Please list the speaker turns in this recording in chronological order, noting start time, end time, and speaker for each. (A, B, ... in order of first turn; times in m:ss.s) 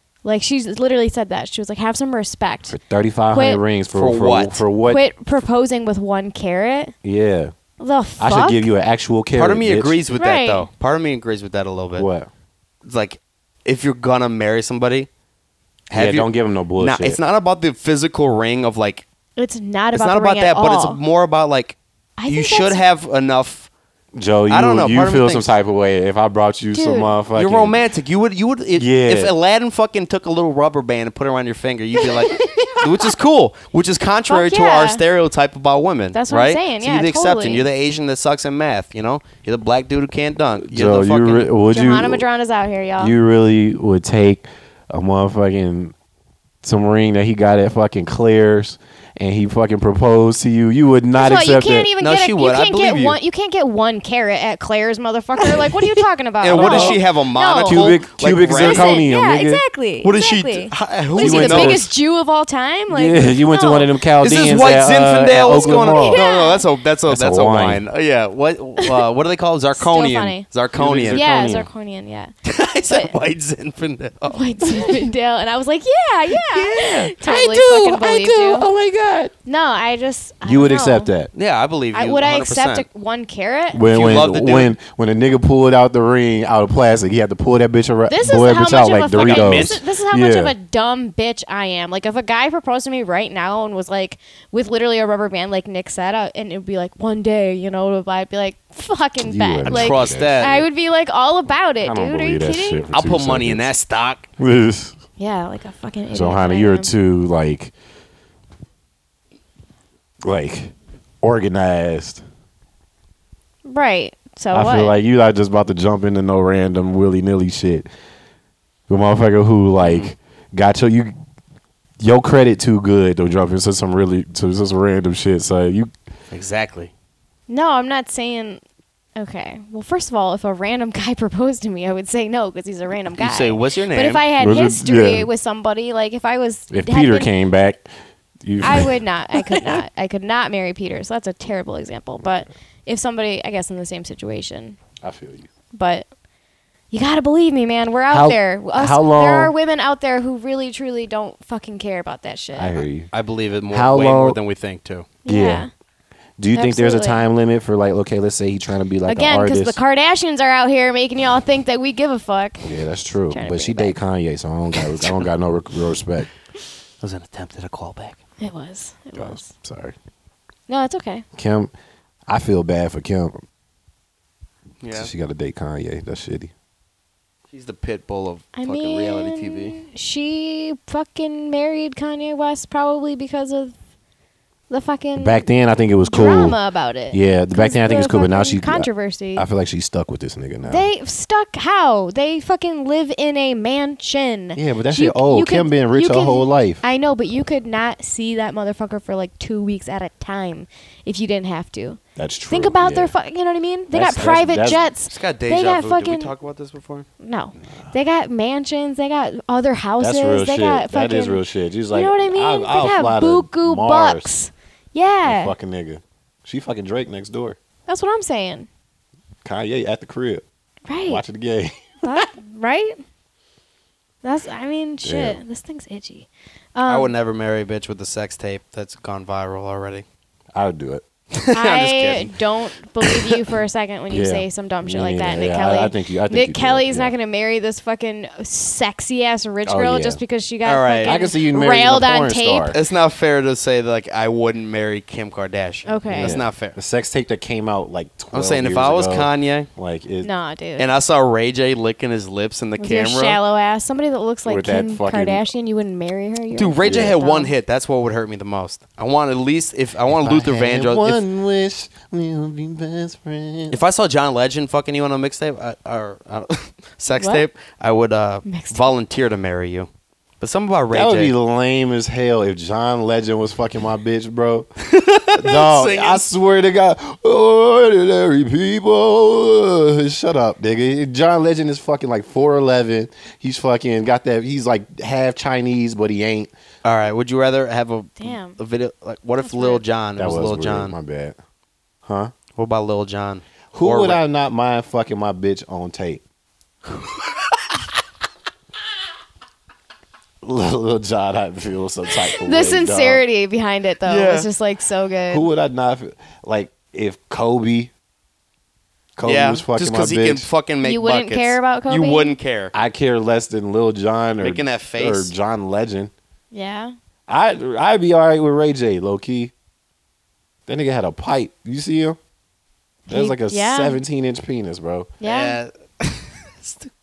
0:00.2-0:02.8 A
0:02.7-0:05.0 B
0:03.3-0:03.6 A
0:03.9-0:04.6 C
0:04.8-0:06.9 A
0:07.0-0:07.5 B
0:07.8-0:08.7 A
0:08.2-0:10.0 B
0:09.3-0:12.1 C
0:10.1-0:10.7 A
0:11.9-0:12.3 B
0:12.8-0:15.1 C
0:15.9-0:19.0 C
0:15.9-0:17.2 B
0:19.4-0:21.0 A
0:19.9-0:23.7 C
0:22.2-0:22.8 A
0:24.1-0:27.8 B
0:24.5-0:25.6 C
0:26.7-0:27.1 A
0:27.3-0:41.5 C
0:28.7-0:29.3 B
0:32.3-0:32.7 A
0:34.3-0:35.0 A
0:36.1-0:37.7 A
0:40.6-0:42.2 B
0:41.7-0:43.1 A
0:43.0-0:45.9 B
0:46.6-0:51.9 B
0:51.1-1:03.9 A
0:52.0-0:53.2 C
0:56.4-0:59.0 C
0:56.5-0:57.0 B
0:57.6-0:59.6 B
1:00.0-1:01.9 C
1:01.2-1:01.9 B
1:02.9-1:06.2 B
1:04.2-1:11.3 C
1:05.8-1:06.7 A
1:07.1-1:07.8 B
1:08.8-1:09.0 A
1:09.7-1:10.5 A
1:10.7-1:11.7 B
1:11.1-1:12.3 A
1:12.4-1:14.5 C
1:12.9-1:13.1 A
1:14.2-1:18.7 A
1:16.3-1:19.3 B
1:16.8-1:17.0 C
1:19.4-1:21.1 A
1:20.4-1:21.3 B
1:21.3-1:22.9 C
1:21.9-1:23.9 A
1:23.7-1:30.5 B
1:23.8-1:24.8 C
1:28.1-1:42.9 A
1:29.1-1:29.8 C
1:39.2-1:40.6 B
1:39.6-1:40.6 C
1:41.8-1:43.7 B
1:42.9-1:44.3 C
1:44.4-1:45.0 B
1:45.2-1:46.9 A
1:46.1-1:47.7 B
1:50.2-1:52.2 B
1:53.6-1:55.0 A
1:54.5-1:57.9 B
1:58.9-2:01.2 B
1:59.8-2:00.1 C
2:02.0-2:05.9 B
2:06.3-2:06.9 C
2:07.5-2:08.6 A
2:09.2-2:17.3 A
2:13.1-2:14.2 C
2:14.4-2:15.3 B
2:16.7-2:17.9 B
2:18.4-2:19.8 B
2:18.6-2:24.8 A
2:25.0-2:25.5 B
2:25.7-2:26.1 A
2:26.9-2:32.8 A
2:28.1-2:29.5 B
2:32.5-2:33.1 B
2:33.1-2:35.1 C
2:33.7-2:34.4 B
2:35.2-2:35.7 A
2:35.2-2:35.7 B
2:36.4-2:39.8 B
2:36.5-2:37.2 A
2:39.1-2:42.7 A
2:42.6-2:46.3 B
2:43.3-2:44.0 A
2:47.0-2:48.2 C
2:48.4-2:49.5 A
2:49.1-2:49.9 B
2:50.7-2:51.2 A
2:51.4-2:51.7 B
2:52.3-2:53.4 B
2:54.8-2:55.1 C
2:54.9-2:56.5 B
2:57.5-2:59.8 C
2:58.5-3:03.8 A
3:04.7-3:05.5 A
3:05.2-3:06.6 B
3:06.0-3:09.4 A
3:07.1-3:10.9 B
3:10.6-3:26.3 A
3:14.6-3:16.8 B
3:22.2-3:23.1 B
3:23.9-3:24.8 B
3:25.1-3:27.1 C
3:27.2-3:31.4 A
3:30.0-3:34.3 B
3:31.9-3:35.5 A
3:35.2-3:37.6 B
3:37.9-3:38.7 A
3:39.4-3:40.4 B
3:40.9-3:41.2 A
3:41.0-3:42.3 B
3:42.0-3:43.0 A
3:44.2-3:47.1 A
3:45.0-3:45.4 B
3:46.8-3:50.0 C
3:50.5-3:51.0 B
3:51.4-3:52.4 C
3:51.5-4:02.8 A
3:53.0-3:53.3 C
3:54.1-3:57.1 B
3:59.6-4:00.2 B
4:00.6-4:01.2 C
4:01.0-4:02.8 B
4:02.7-4:06.8 C
4:05.8-4:06.4 A
4:06.1-4:10.3 B
4:08.3-4:09.7 C
4:10.2-4:10.9 A
4:10.8-4:13.4 C
4:12.8-4:17.5 A
4:14.4-4:15.4 B
4:16.5-4:21.2 C
4:16.8-4:17.2 B
4:20.1-4:23.8 B
4:23.7-4:29.9 C
4:27.2-4:27.4 A
4:28.4-4:28.9 A
4:30.4-4:31.3 C
4:30.9-4:34.7 B
4:34.9-4:36.2 C
4:35.3-4:46.5 B
4:46.8-4:51.0 C
4:48.2-4:48.6 A
4:49.4-4:49.8 A
4:50.2-4:51.4 B
4:52.0-4:52.3 B
4:52.6-4:54.2 C
4:53.7-4:56.2 B
5:00.4-5:03.2 B
5:02.2-5:05.4 A
5:04.0-5:04.5 C
5:05.3-5:07.9 B
5:09.2-5:10.5 B
5:09.2-5:12.7 C
5:10.8-5:12.4 A
5:12.7-5:16.1 B
5:14.4-5:15.3 C
5:16.5-5:16.9 A
5:17.3-5:19.5 B
5:20.7-5:22.2 B
5:23.1-5:24.0 A
5:23.1-5:25.1 B
5:25.2-5:25.6 A
5:25.2-5:26.9 C